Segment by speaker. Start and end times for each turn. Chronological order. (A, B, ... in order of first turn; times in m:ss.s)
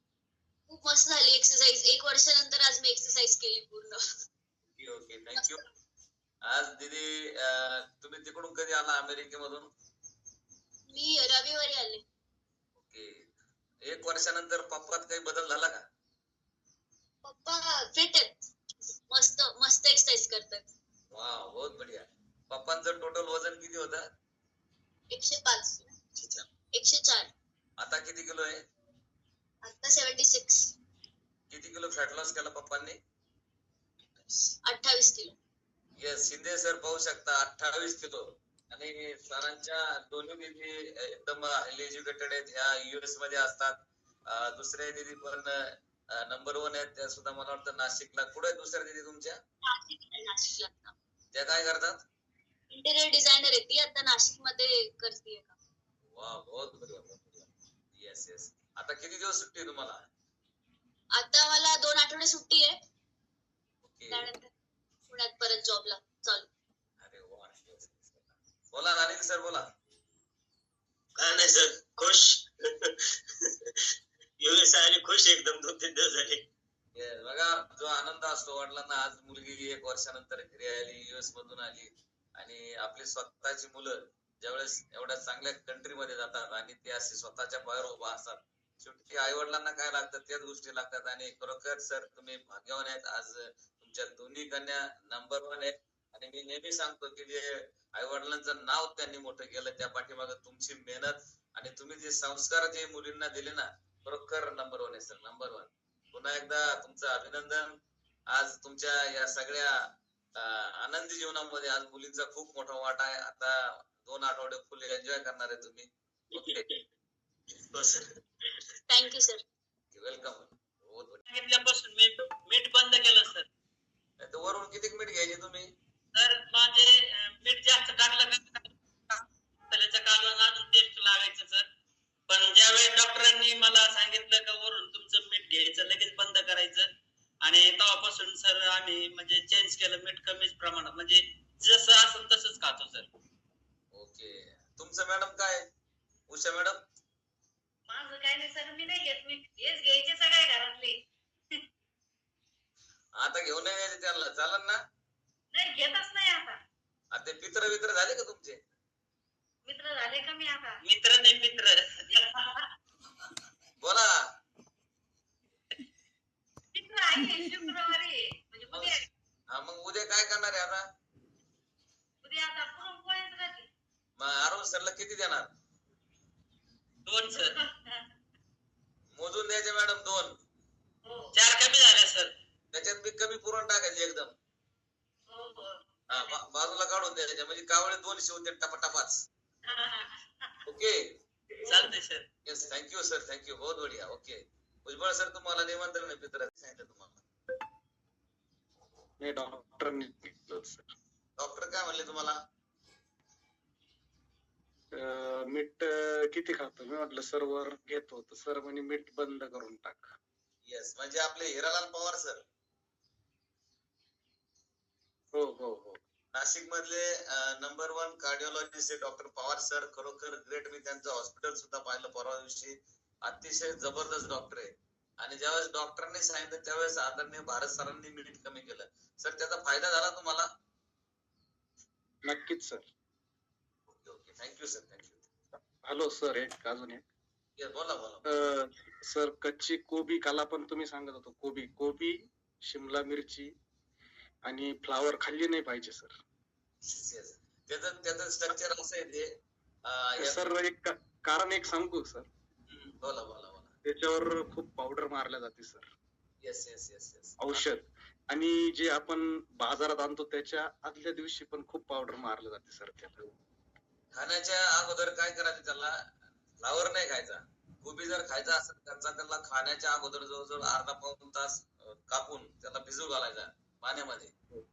0:00.7-0:04.0 A
0:04.8-0:05.6 B
0:06.4-0:09.7 B
0:10.9-0:12.0 A
0:12.9-0:13.3 B
0:13.9-0:15.8 B
0:17.3-0:18.4 A
0:19.1-0:20.7 A
0:21.1-0:24.0 B
0:25.1-0:26.0 A
0:26.7-0:27.3 A
0:27.8-0:28.6 B
0:29.6-0:30.7 A
0:31.5-0:33.0 B
0:34.6-0:35.4 A
0:36.0-0:49.4 B
0:49.6-0:50.9 A
0:51.3-0:52.0 B
0:52.7-0:55.6 A
0:56.1-1:00.0 B
1:01.2-1:02.7 A
1:03.9-1:04.3 B
1:04.1-1:04.5 A
1:05.1-1:06.5 A
1:07.0-1:09.6 B
1:11.2-1:12.9 C
1:14.4-1:16.4 C
1:17.0-1:47.8 B
1:48.3-1:49.7 B
1:50.4-1:56.7 B
1:57.7-1:58.0 C
1:58.9-1:59.4 A
1:59.9-2:01.2 B
2:01.3-2:03.5 D
2:04.2-2:05.7 B
2:06.2-2:11.7 D
2:12.3-2:16.9 D
2:17.4-2:23.1 D
2:23.9-2:25.6 B
2:26.3-2:26.8 B
2:27.9-2:31.0 E
2:33.2-2:34.8 B
2:35.5-2:36.6 E
2:37.1-2:38.6 B
2:39.7-2:40.8 E
2:40.8-2:42.5 D
2:43.8-2:44.2 B
2:46.8-2:49.0 E
2:48.7-2:50.8 B
2:52.2-2:53.7 E
2:54.2-2:55.5 B
2:57.1-2:57.6 D
2:57.6-2:58.0 E
2:59.1-3:00.4 B
3:01.0-3:01.3 E
3:01.4-3:02.3 D
3:02.7-3:04.3 B
3:05.3-3:06.4 E
3:06.1-3:09.2 B
3:09.7-3:10.5 E
3:10.7-3:11.2 B
3:11.7-3:12.3 D
3:12.4-3:17.2 B
3:19.2-3:20.9 F
3:21.4-3:22.4 B
3:25.0-3:30.1 F
3:30.7-3:32.4 B
3:35.3-3:36.0 F
3:36.3-3:50.5 B
3:52.3-3:52.9 F
3:54.0-3:55.3 B
3:55.8-3:57.0 F
3:57.6-3:58.2 B
3:58.3-4:03.5 F
4:04.5-4:06.1 F
4:06.8-4:09.3 B
4:09.9-4:10.4 B
4:10.2-4:12.3 F
4:12.7-4:13.8 B
4:13.8-4:15.9 F
4:16.4-4:17.6 B
4:17.4-4:23.3 F
4:24.1-4:26.0 B
4:26.6-4:34.3 B